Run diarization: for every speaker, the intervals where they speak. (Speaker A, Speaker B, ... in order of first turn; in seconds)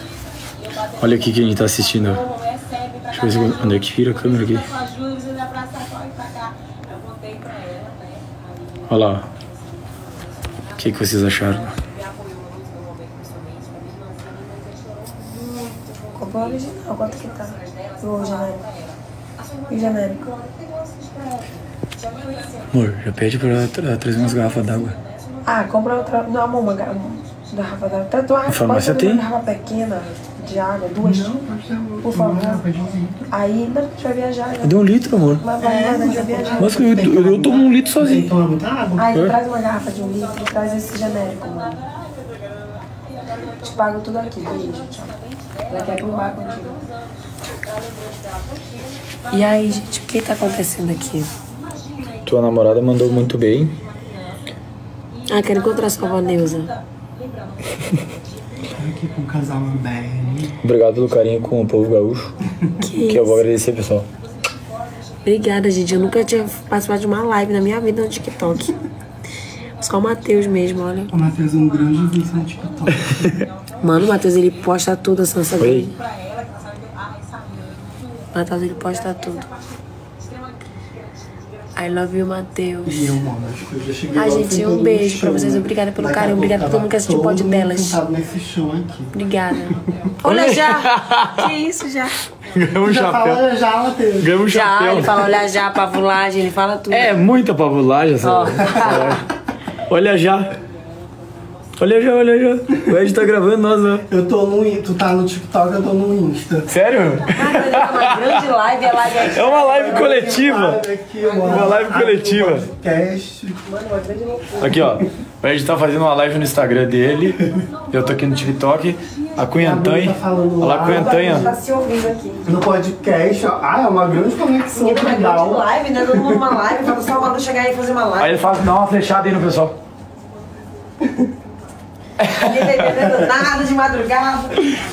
Speaker A: 1.0-2.3, 3.1-4.8, 8.9-9.3, 10.8-11.8, 22.7-25.0, 28.5-29.2, 34.6-35.4, 36.6-38.3, 52.2-53.8, 60.6-62.3, 63.1-64.1, 75.6-75.9, 90.2-91.3, 92.4-93.4, 94.2-95.1, 96.9-99.3, 99.9-100.5, 101.8-104.0, 106.7-108.1, 109.3-110.8, 111.5-112.7, 114.6-121.5, 128.2-129.8, 132.2-133.1
Speaker B: 16.1-18.6, 19.7-20.3, 25.4-31.3, 32.0-32.6, 33.3-34.8, 35.4-36.8, 39.0-41.8, 43.4-46.9, 49.3-51.3, 55.3-56.8, 62.8-63.4, 65.2-68.8, 69.8-71.1, 73.8-76.0, 78.3-79.5, 81.8-83.2, 84.1-88.0, 89.1-92.2, 94.5-97.3, 98.2-99.2, 107.3-110.5, 111.2-111.9, 113.7-114.8, 120.8-122.5, 124.7-128.5, 132.3-134.7
Speaker C: 31.0-33.3, 35.6-39.1, 58.7-60.5, 71.1-73.3, 82.8-89.2, 92.8-94.4, 98.6-99.2, 104.1-106.7, 109.6-113.6, 119.6-121.5, 122.5-126.4, 131.0-131.3